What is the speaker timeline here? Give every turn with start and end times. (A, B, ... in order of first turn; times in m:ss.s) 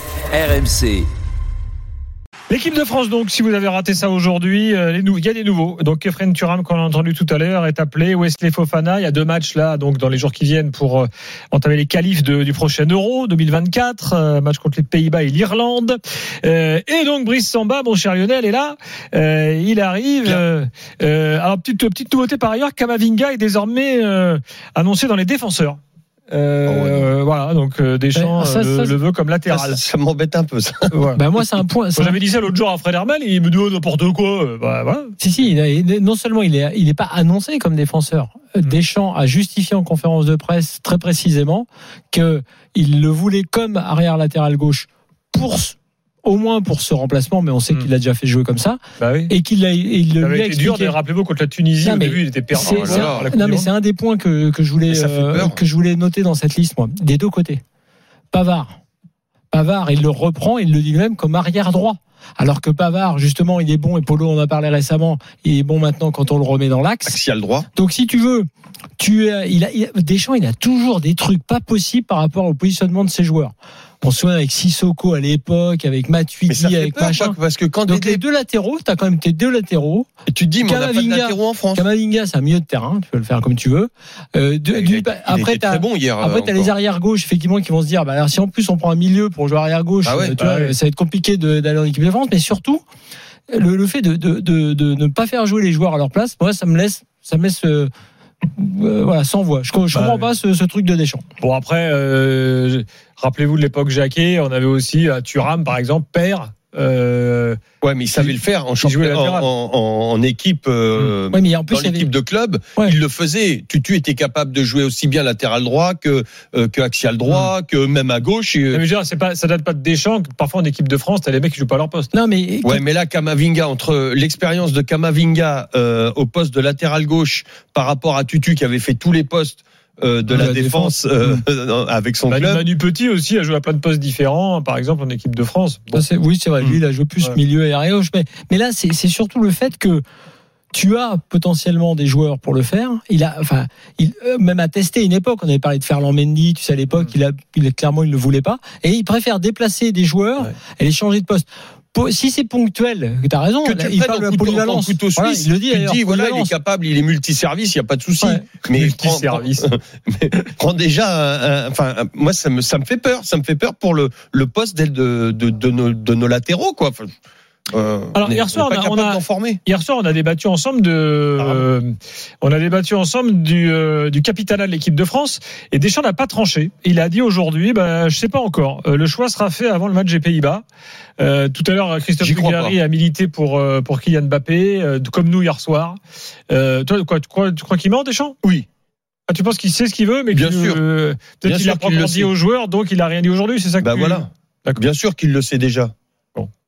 0:02.5-0:25.8 A
0:26.3-0:29.8 A
0:26.7-0:27.1 B
0:28.2-0:29.0 C
0:29.5-0:30.9 B
0:30.9-0:31.2 A
0:31.2-0:32.2 C
0:32.0-0:35.1 A
0:35.2-0:51.0 C
0:49.0-0:49.3 A
0:50.2-0:53.7 A
0:51.8-0:57.6 C
0:52.6-0:53.3 B
0:54.9-0:55.6 B
0:58.3-0:58.8 C
0:59.5-1:07.2 C
1:07.0-1:07.7 B
1:07.8-1:08.5 C
1:09.0-1:20.1 C
1:16.5-1:18.2 B
1:20.3-1:21.8 B
1:20.6-1:32.8 C
1:24.7-1:26.7 B
1:30.0-1:30.4 B
1:30.4-1:30.8 A
1:33.5-1:37.9 C
1:38.6-1:41.2 C
1:39.9-1:40.3 A
1:41.4-1:47.6 A
1:47.8-1:58.8 B
1:48.2-1:49.5 A
1:51.3-1:52.1 C
1:58.7-2:02.1 A
2:02.1-2:02.8 C
2:02.6-2:12.6 B
2:10.3-2:11.0 C
2:12.3-2:16.1 A
2:15.9-2:20.0 C
2:20.7-2:36.5 C
2:33.6-2:47.1 B
2:38.6-2:39.7 A
2:47.7-2:49.6 B
2:48.2-2:51.9 A
2:51.4-2:51.6 B
2:52.4-3:00.6 A
3:01.2-3:06.0 A
3:02.2-3:02.8 B
3:06.5-3:08.4 A
3:09.3-3:14.8 A
3:10.3-3:10.8 B
3:11.5-3:12.3 B
3:13.8-3:15.9 B